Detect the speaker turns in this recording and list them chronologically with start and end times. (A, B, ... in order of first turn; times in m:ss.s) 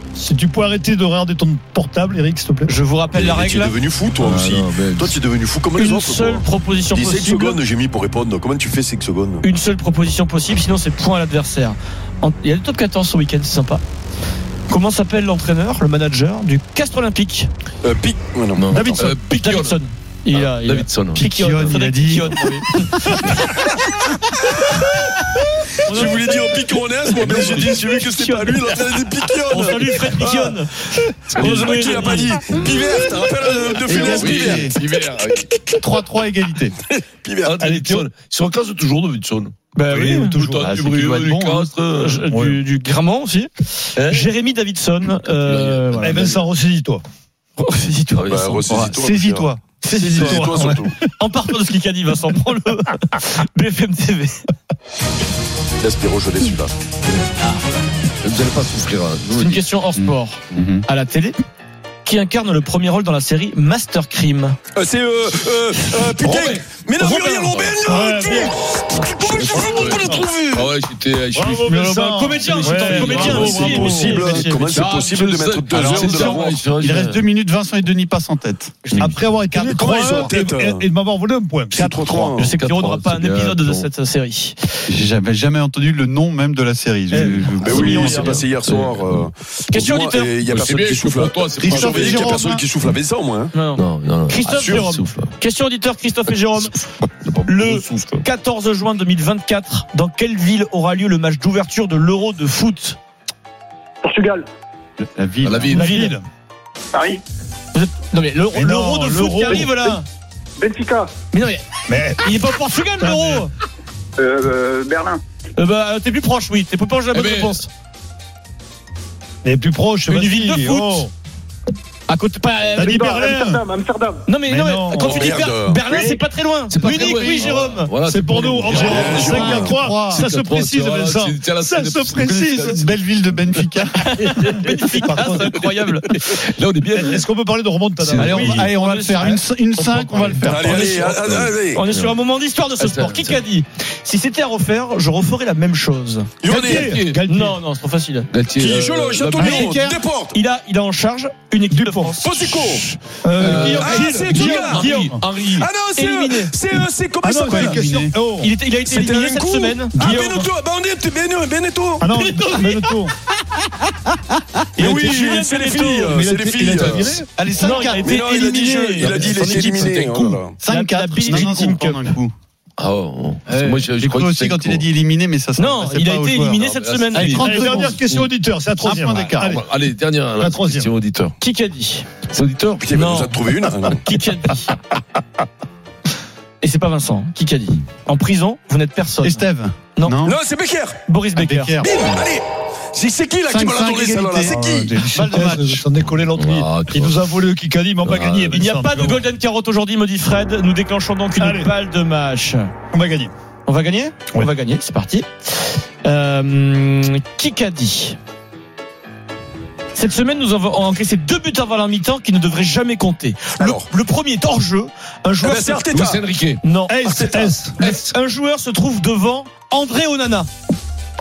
0:00.2-0:02.7 A
0:02.7-0:03.8 B
0:03.1-0:09.4 C
0:04.2-0:05.2 D
0:05.8-0:07.6 B
0:09.4-0:13.8 B
0:14.7-0:17.5 B
0:17.8-0:19.0 C
0:18.6-0:19.8 D
0:18.7-0:19.1 A
0:19.0-0:23.7 B
0:20.3-0:21.3 D
0:21.2-0:23.4 E
0:25.8-0:28.7 B
0:25.9-0:30.6 C
0:27.1-0:27.8 D
0:29.5-0:32.4 B
0:31.3-0:35.6 C
0:31.3-0:32.8 D
0:33.9-0:34.7 E
0:33.9-0:35.4 D
0:35.7-0:36.8 E
0:37.0-0:37.7 C
0:37.4-0:42.3 D
0:37.6-0:38.0 A
0:39.8-0:40.4 B
0:40.0-0:40.7 A
0:40.6-0:41.7 E
0:42.0-0:46.4 B
0:42.3-0:42.6 A
0:44.0-0:44.3 D
0:45.4-0:46.4 D
0:46.0-0:47.0 A
0:47.6-0:48.6 B
0:48.2-0:48.9 D
0:48.3-0:50.9 C
0:48.7-0:49.6 E
0:49.8-0:54.4 B
0:50.2-0:50.9 A
0:55.8-0:56.7 C
0:58.2-0:59.6 D
0:59.3-1:01.4 B
1:00.0-1:00.8 E
1:02.0-1:04.6 B
1:04.7-1:10.7 C
1:06.0-1:07.7 B
1:07.5-1:08.0 D
1:07.9-1:08.5 A
1:08.9-1:14.1 D
1:11.4-1:14.4 A
1:12.0-1:14.7 B
1:13.1-1:16.7 C
1:14.7-1:17.2 D
1:15.8-1:16.2 B
1:16.0-1:20.3 E
1:18.8-1:19.1 B
1:19.0-1:21.8 A
1:19.8-1:20.9 C
1:21.7-1:22.5 C
1:21.7-1:24.8 B
1:22.1-1:23.9 D
1:24.9-1:28.4 E
1:27.1-1:27.5 A
1:27.1-1:29.3 D
1:27.3-1:28.4 B
1:27.6-1:33.5 C
1:29.7-1:30.4 B
1:30.4-1:32.4 D
1:31.6-1:32.6 A
1:31.7-1:32.6 B
1:33.5-1:36.8 B
1:33.8-1:35.3 D
1:34.6-1:34.9 C
1:37.2-1:38.2 D
1:37.5-1:43.0 B
1:44.0-1:44.5 F
1:45.0-1:46.2 E
1:45.4-1:45.9 D
1:45.7-1:46.2 B
1:45.7-1:46.2 A
1:46.9-1:47.2 F
1:47.7-1:50.0 B
1:48.5-1:50.0 A
1:50.6-1:51.1 F
1:51.3-1:51.6 B
1:51.9-1:52.4 A
1:52.2-1:53.5 B
1:53.0-1:53.4 A
1:54.2-1:55.2 F
1:55.6-1:57.7 B
1:57.1-1:57.6 D
1:59.4-2:01.1 A
2:00.1-2:01.1 B
2:02.1-2:03.1 B
2:02.8-2:03.6 A
2:02.8-2:04.3 F
2:04.3-2:07.9 B
2:04.4-2:05.4 A
2:05.0-2:06.1 C
2:05.9-2:06.2 F
2:06.7-2:12.9 D
2:08.1-2:12.9 A
2:08.8-2:09.8 C
2:08.8-2:10.3 E
2:12.2-2:14.6 E
2:14.1-2:16.4 B
2:14.5-2:15.6 A
2:15.2-2:15.6 D
2:16.2-2:17.3 D
2:16.9-2:18.6 A
2:18.0-2:21.1 E
2:18.2-2:21.1 B
2:20.4-2:21.8 C
2:20.8-2:22.2 D
2:21.7-2:26.3 B
2:22.8-2:23.4 D
2:26.4-2:26.9 C
2:26.5-2:27.6 A
2:26.5-2:27.2 D
2:27.3-2:28.3 B
2:28.3-2:29.7 D
2:28.6-2:30.4 C
2:29.4-2:32.8 B
2:29.4-2:29.7 E
2:31.7-2:32.1 A
2:32.2-2:32.9 C
2:33.2-2:35.2 A
2:33.4-2:35.6 D
2:33.4-2:36.5 B
2:33.6-2:37.9 C
2:37.2-2:37.8 B
2:37.2-2:38.5 A
2:38.4-2:40.5 B
2:38.8-2:42.1 C
2:42.0-2:43.1 A
2:42.1-2:42.9 B
2:44.8-2:46.2 B
2:44.8-2:47.2 C
2:46.1-2:47.3 A
2:47.3-2:48.2 E
2:47.6-2:50.1 B
2:48.0-2:50.6 C
2:49.1-2:50.4 D
2:50.6-2:52.1 B
2:50.6-2:52.3 E
2:52.8-2:54.9 D
2:53.5-2:56.6 E
2:55.6-2:58.0 B
2:56.6-2:58.3 D
2:57.1-2:59.6 A
2:58.8-2:59.6 E
2:59.3-3:01.4 D
3:00.4-3:00.9 A
3:01.4-3:02.1 B
3:02.3-3:02.9 D
3:02.8-3:04.0 C
3:02.9-3:03.4 B
3:04.0-3:04.7 B
3:06.6-3:09.4 B
3:09.2-3:10.4 E
3:10.2-3:11.0 C
3:11.0-3:11.8 B
3:11.4-3:12.2 E
3:11.8-3:15.1 C
3:13.5-3:15.8 E
3:14.4-3:19.2 A
3:16.3-3:17.3 D
3:18.0-3:18.7 D
3:18.5-3:22.7 B
3:21.4-3:21.7 A
3:22.9-3:23.3 A
3:23.7-3:28.2 B
3:30.0-3:35.9 B
3:33.6-3:33.9 C
3:35.4-3:36.2 C
3:35.9-3:36.6 D
3:36.6-3:37.1 B
3:36.9-3:38.0 A
3:37.0-3:37.6 C
3:37.8-3:40.5 B